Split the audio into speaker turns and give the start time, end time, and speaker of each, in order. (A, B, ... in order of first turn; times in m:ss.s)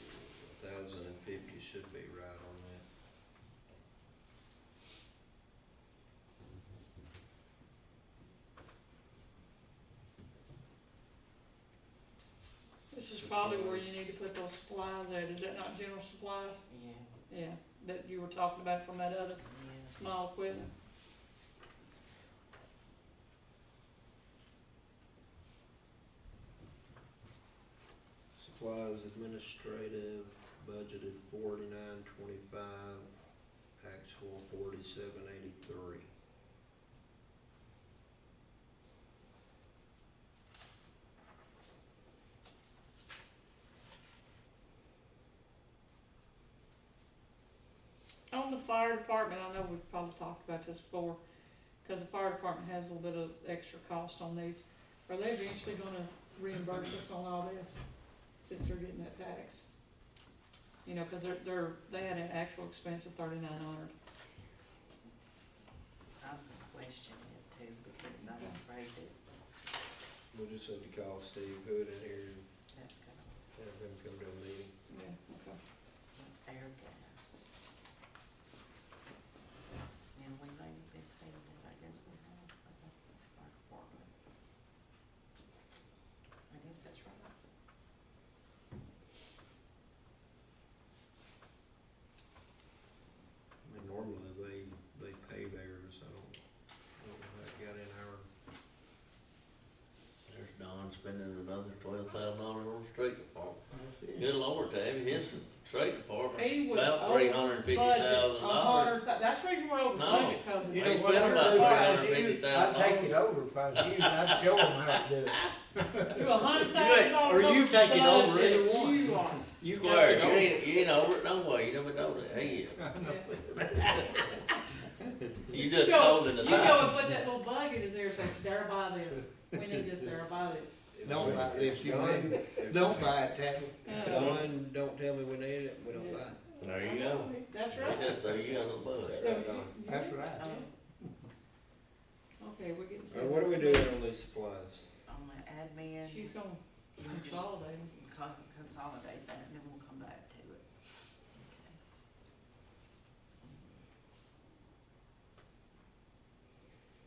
0:00.6-0:02.8 A
0:12.9-0:16.6 B
0:13.0-0:14.0 A
0:16.7-0:17.1 C
0:17.3-0:20.7 B
0:19.4-0:20.0 C
0:28.4-0:33.1 A
0:33.8-0:36.1 A
0:48.3-0:51.2 B
0:51.8-0:57.8 B
0:58.4-0:59.6 B
1:00.8-1:03.9 B
1:06.2-1:09.1 C
1:08.2-1:08.6 B
1:10.3-1:12.5 A
1:12.7-1:13.3 C
1:13.5-1:14.7 A
1:14.9-1:15.6 B
1:16.1-1:17.4 C
1:20.1-1:24.1 C
1:26.5-1:27.3 C
1:33.6-1:36.4 A
1:37.0-1:38.3 A
1:40.3-1:49.0 D
1:43.7-1:44.3 E
1:46.3-1:52.1 B
1:49.9-1:53.2 D
1:50.6-1:56.3 E
1:53.8-1:55.4 D
1:56.1-1:59.5 B
1:56.6-1:57.3 D
1:57.2-2:00.7 E
1:59.7-2:03.9 D
2:02.8-2:03.2 E
2:03.0-2:03.3 B
2:05.4-2:07.0 D
2:05.6-2:10.7 B
2:11.0-2:16.4 A
2:11.0-2:14.4 E
2:11.1-2:11.4 D
2:13.8-2:14.5 B
2:15.9-2:18.6 B
2:16.6-2:19.4 D
2:19.0-2:19.8 A
2:19.2-2:20.7 B
2:19.8-2:20.5 E
2:20.3-2:20.7 C
2:22.4-2:24.0 B
2:23.1-2:24.9 A
2:25.0-2:26.3 C
2:26.0-2:27.9 B
2:27.0-2:31.8 C
2:33.4-2:33.7 C